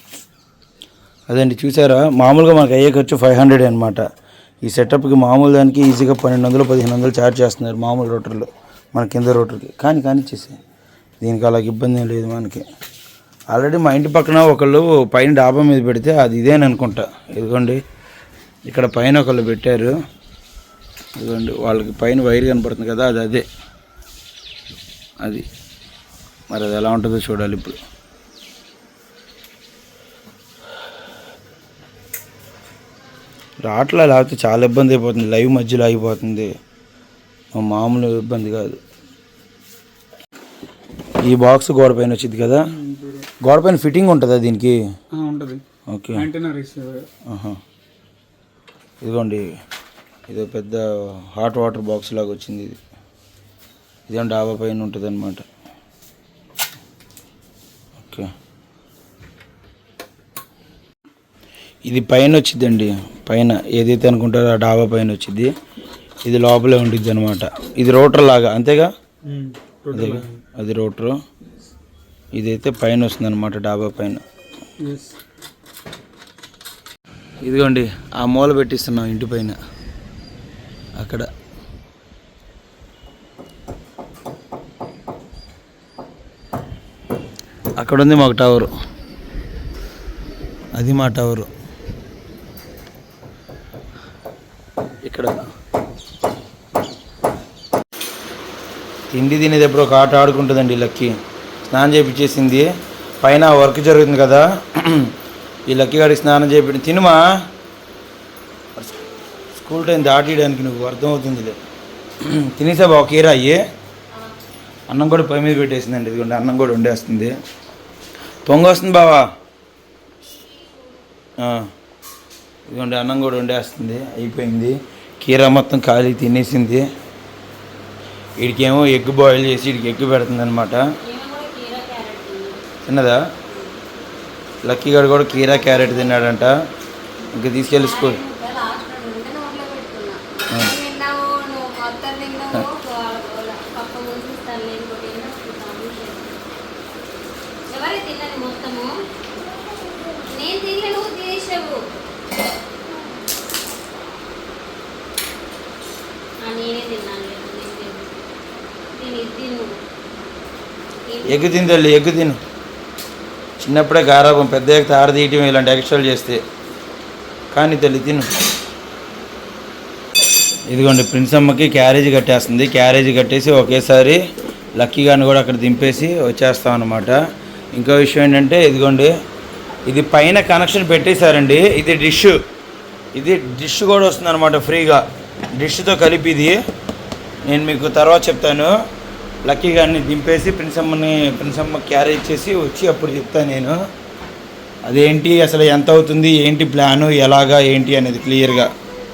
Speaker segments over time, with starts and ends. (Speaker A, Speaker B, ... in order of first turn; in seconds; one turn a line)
Speaker A: 1.3-4.0
Speaker A: 4.6-10.6
Speaker A: 11.2-12.6
Speaker A: 13.5-17.8
Speaker A: 18.6-19.9
Speaker A: 21.2-23.4
Speaker A: 26.5-27.8
Speaker A: 33.6-36.5
Speaker A: 37.5-38.8
Speaker A: 41.2-42.6
Speaker B: 42.7-43.3
Speaker A: 43.4-44.8
Speaker B: 45.1-45.6
Speaker A: 45.9-46.3
Speaker B: 46.1-47.1
Speaker A: 47.3-47.6
Speaker A: 49.0-49.4
Speaker A: 50.3-52.8
Speaker A: 54.1-55.4
Speaker A: 58.0-58.3
Speaker A: 61.9-65.5
Speaker A: 66.2-68.9
Speaker B: 69.2-70.4
Speaker A: 69.9-71.2
Speaker A: 72.4-74.2
Speaker B: 74.8-75.2
Speaker A: 77.4-79.5
Speaker A: 81.0-81.3
Speaker A: 87.8-88.7
Speaker A: 90.8-91.5
Speaker A: 95.0-95.4
Speaker A: 99.1-101.1
Speaker A: 101.7-102.7
Speaker A: 103.2-105.1
Speaker A: 105.7-107.2
Speaker A: 109.5-111.5
Speaker A: 112.2-113.6
Speaker A: 114.9-117.3
Speaker A: 118.5-119.2
Speaker C: 120.5-120.8
Speaker A: 121.4-121.7
Speaker A: 122.7-126.8
Speaker A: 128.4-130.8
Speaker C: 131.0-132.6
Speaker A: 132.8-133.2
Speaker C: 133.5-133.8
Speaker A: 134.6-136.5
Speaker A: 137.3-138.2
Speaker C: 137.7-146.4
Speaker C: 147.7-148.9
Speaker C: 150.0-151.8
Speaker C: 156.4-158.3
Speaker C: 158.9-159.7
Speaker C: 161.1-161.7
Speaker A: 161.2-162.4
Speaker A: 163.6-166.4
Speaker A: 167.5-168.2
Speaker A: 170.7-174.2
Speaker A: 174.8-177.2
Speaker A: 177.8-179.1
Speaker A: 179.9-182.4
Speaker A: 183.1-185.0
Speaker A: 185.6-186.6
Speaker A: 187.4-188.7
Speaker A: 189.4-193.8
Speaker A: 194.9-198.7